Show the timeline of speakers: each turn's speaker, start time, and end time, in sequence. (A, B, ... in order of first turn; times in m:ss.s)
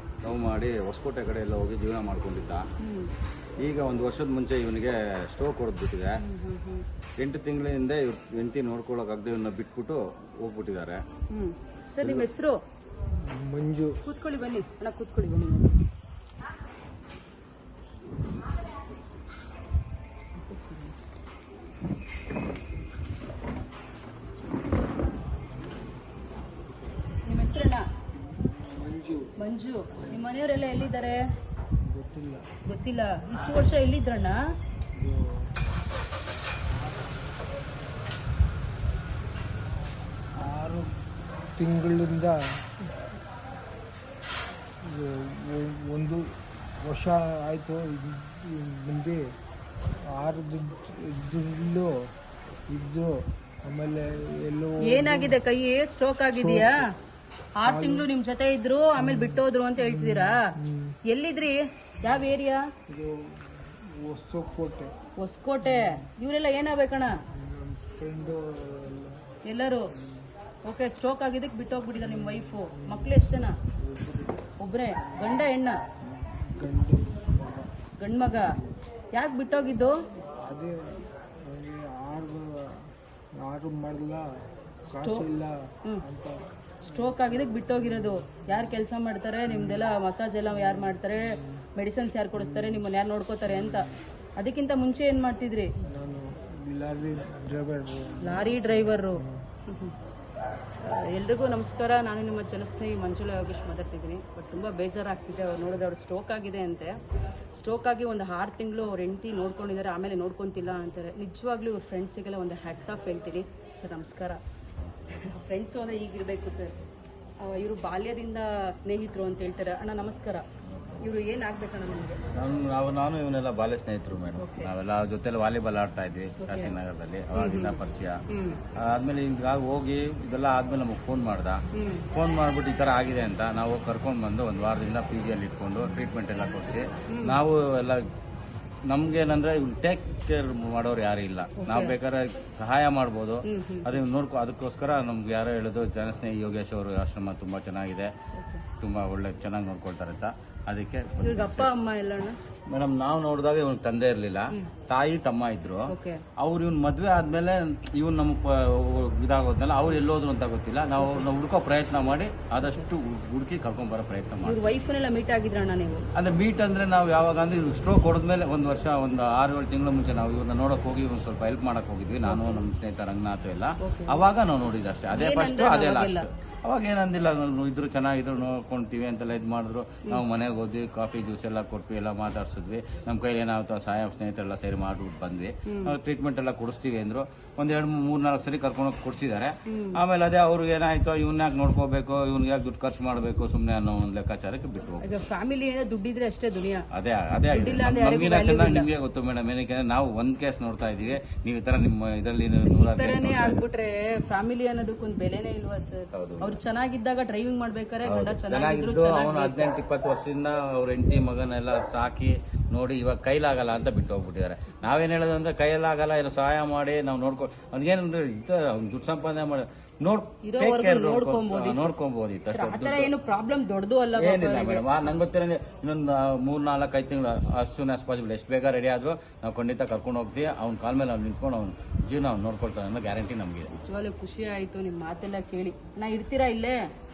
0:00.2-0:02.7 A
0:02.8-0:03.1 B
0:03.6-0:06.2 A
0:06.2-0:06.8 B
0:07.2-0:11.0 A
0:11.3-0:12.6 B
0:13.2-0:14.0 C
0:14.0-0:15.8 B
0:27.2-0:27.9 B
0:28.3-0:29.3 C
0:29.4-0:31.2 B
0:30.0-0:30.3 C
0:31.8-0:32.5 C
0:32.6-0:34.4 B
0:34.9-0:35.6 C
0:40.3-0:41.0 C
0:41.5-0:42.9 C
0:44.8-0:49.3 C
0:50.1-0:52.1 C
0:52.7-0:55.4 C
0:54.8-0:56.9 B
0:56.3-0:56.8 C
0:57.6-1:00.5 B
0:57.6-0:58.1 C
0:59.0-1:01.0 C
1:01.1-1:02.6 B
1:02.9-1:04.9 C
1:05.2-1:07.1 B
1:05.6-1:06.1 C
1:07.3-1:09.3 C
1:09.4-1:09.9 B
1:09.9-1:10.3 C
1:10.7-1:13.6 B
1:12.0-1:14.5 C
1:14.6-1:15.8 B
1:16.0-1:17.7 C
1:18.0-1:18.5 B
1:19.1-1:20.0 B
1:20.2-1:28.8 C
1:24.9-1:25.2 B
1:26.9-1:35.7 B
1:29.5-1:29.9 C
1:30.5-1:31.6 C
1:32.3-1:32.8 C
1:33.5-1:34.0 C
1:35.9-1:39.5 C
1:38.2-1:39.9 B
1:40.8-1:47.0 B
1:47.5-1:54.4 B
1:54.8-1:55.2 A
1:55.1-1:56.8 B
1:57.4-2:00.4 B
2:00.7-2:01.0 A
2:01.0-2:02.2 B
2:02.3-2:08.2 A
2:04.4-2:04.7 B
2:06.4-2:06.8 B
2:07.4-2:07.8 B
2:08.3-2:08.6 B
2:08.8-2:11.6 A
2:11.7-2:12.1 B
2:12.1-2:18.1 A
2:17.1-2:17.4 B
2:18.9-2:28.1 A
2:21.6-2:22.0 B
2:23.5-2:23.9 B
2:28.3-2:28.6 B
2:28.8-2:31.7 A
2:31.2-2:32.4 B
2:32.7-2:44.6 A
2:35.9-2:36.2 B
2:41.0-2:41.2 B
2:44.4-2:46.0 B
2:46.1-3:15.0 A
2:52.2-2:52.6 B
2:53.8-2:54.2 B
2:55.1-2:56.3 B
3:05.7-3:05.9 B
3:09.7-3:10.0 B
3:15.0-3:16.9 B
3:16.9-3:23.7 A
3:17.5-3:18.9 B
3:22.6-3:29.7 B
3:26.1-3:26.6 A
3:28.1-3:43.1 A
3:40.4-3:41.9 B
3:42.5-3:44.8 B
3:44.2-3:53.8 A
3:53.7-3:56.8 B